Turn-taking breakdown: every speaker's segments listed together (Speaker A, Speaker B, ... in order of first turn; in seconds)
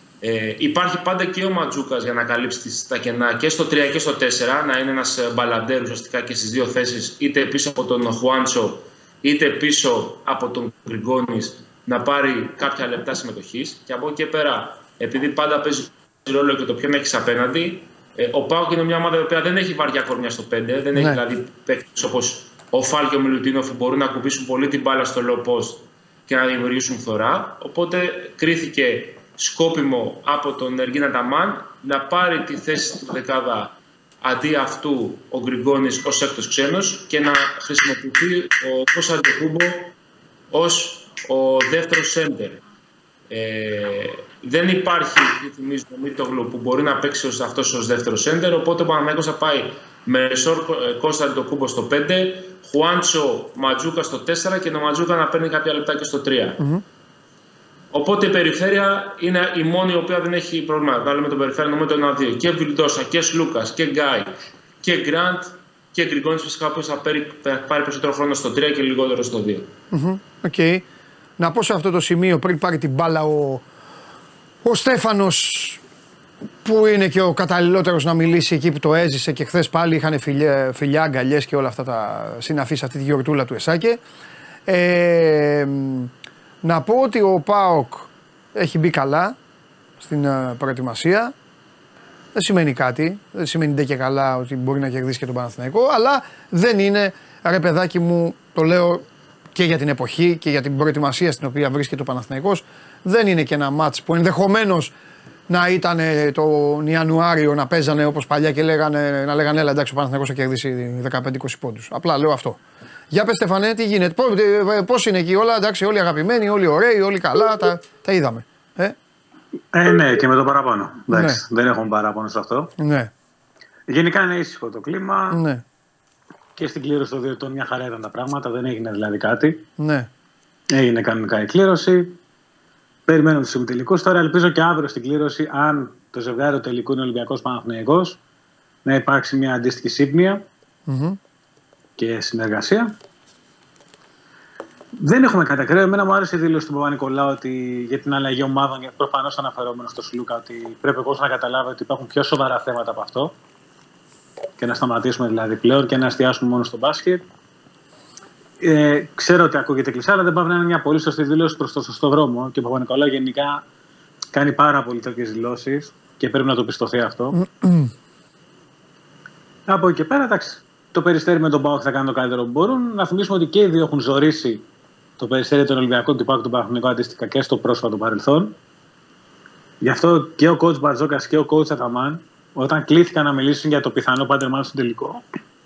Speaker A: 0.2-39.9, 40.5-42.6, 43.3-56.6, 57.9-69.7
Speaker B: 20.9-21.2, 69.9-70.8, 71.4-73.7, 74.6-75.8, 76.6-84.0, 84.7-86.1, 86.6-89.4, 90.0-91.3, 92.3-104.9, 105.5-112.6, 113.1-119.0, 121.1-121.4, 122.8-123.1, 125.3-125.6, 129.8-130.1, 140.9-141.2, 167.3-167.9
Speaker C: 119.7-122.7, 123.9-125.4, 126.6-129.6, 130.7-132.2, 133.1-138.2, 138.8-140.4, 142.0-142.9, 145.0-153.3, 154.6-157.2, 158.6-163.6, 164.3-167.4, 169.7-174.7, 175.2-178.6, 179.8-185.2